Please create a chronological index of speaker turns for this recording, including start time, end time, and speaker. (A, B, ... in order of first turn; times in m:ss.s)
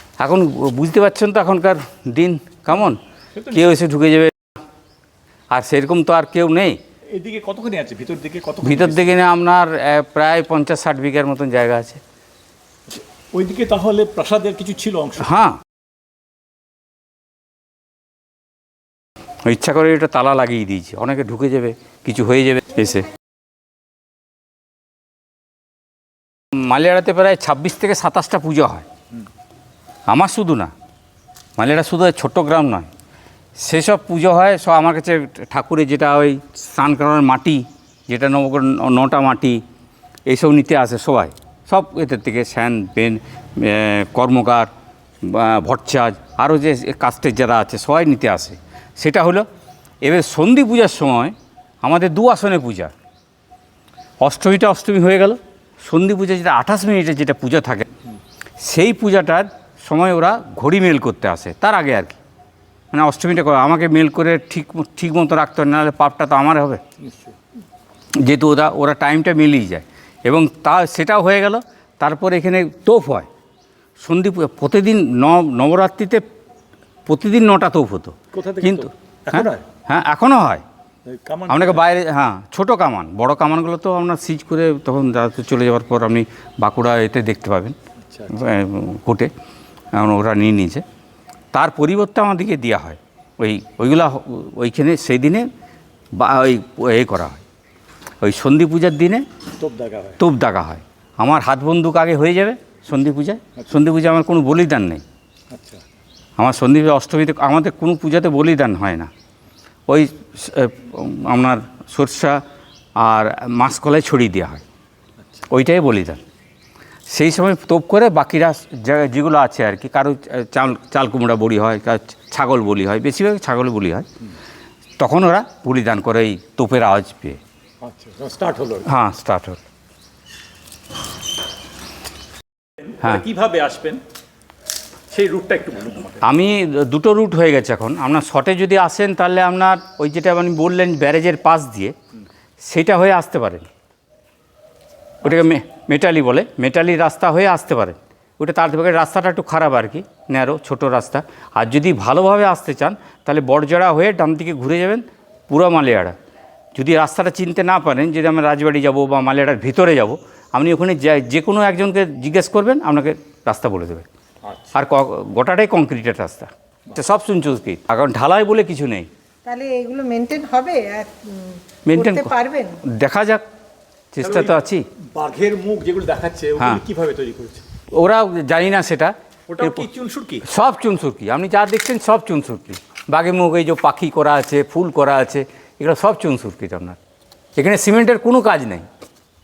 0:00.2-0:03.0 A
0:03.3-0:03.7 B
0:03.5-0:04.3 A
0:05.5-0:06.8 A
0:07.1-0:09.1 B
0:08.6-0:12.0 A
0:12.9-0:15.3 B
0:15.2-0:15.6 A
0:19.4-0:23.1 A
0:26.5-0:28.8 A
0:30.1-0:30.7 A
0:31.6-0:32.9 A
0:33.6-0:39.6 A
0:40.3-0:44.7 A
0:45.2-0:49.4 A
0:50.0-0:52.9 A
0:54.2-0:57.9 A
0:58.6-1:02.2 A
1:02.9-1:06.8 A
1:07.0-1:07.4 B
1:08.1-1:13.3 A
1:14.0-1:16.2 A
1:17.0-1:20.6 A
1:18.3-1:19.6 B
1:21.0-1:21.8 B
1:21.5-1:27.8 A
1:28.0-1:28.3 B
1:28.3-1:29.3 A
1:29.9-1:30.8 A
1:31.5-1:35.5 A
1:36.1-1:37.4 A
1:38.2-1:39.2 A
1:39.6-1:40.2 B
1:40.2-1:45.0 A
1:45.5-1:45.8 B
1:46.4-1:49.1 A
1:49.9-1:52.4 A
1:53.0-1:54.6 A
1:55.5-1:56.2 A
1:57.1-2:04.1 A
2:05.0-2:07.4 A
2:07.8-2:08.9 B
2:08.8-2:09.6 A
2:12.8-2:14.0 B
2:15.1-2:16.3 B
2:16.2-2:21.9 A
2:22.6-2:23.7 A
2:25.2-2:36.1 A
2:36.7-2:44.1 A
2:44.4-2:44.7 B
2:44.7-2:49.1 A
2:49.4-2:52.8 C
2:51.8-2:52.3 A
2:52.8-2:53.4 A
2:54.1-2:54.8 A
2:54.2-2:54.6 B
2:55.1-2:57.6 B
2:57.9-2:59.9 A
2:59.5-3:00.4 B
3:00.4-3:07.0 A
3:07.6-3:08.9 A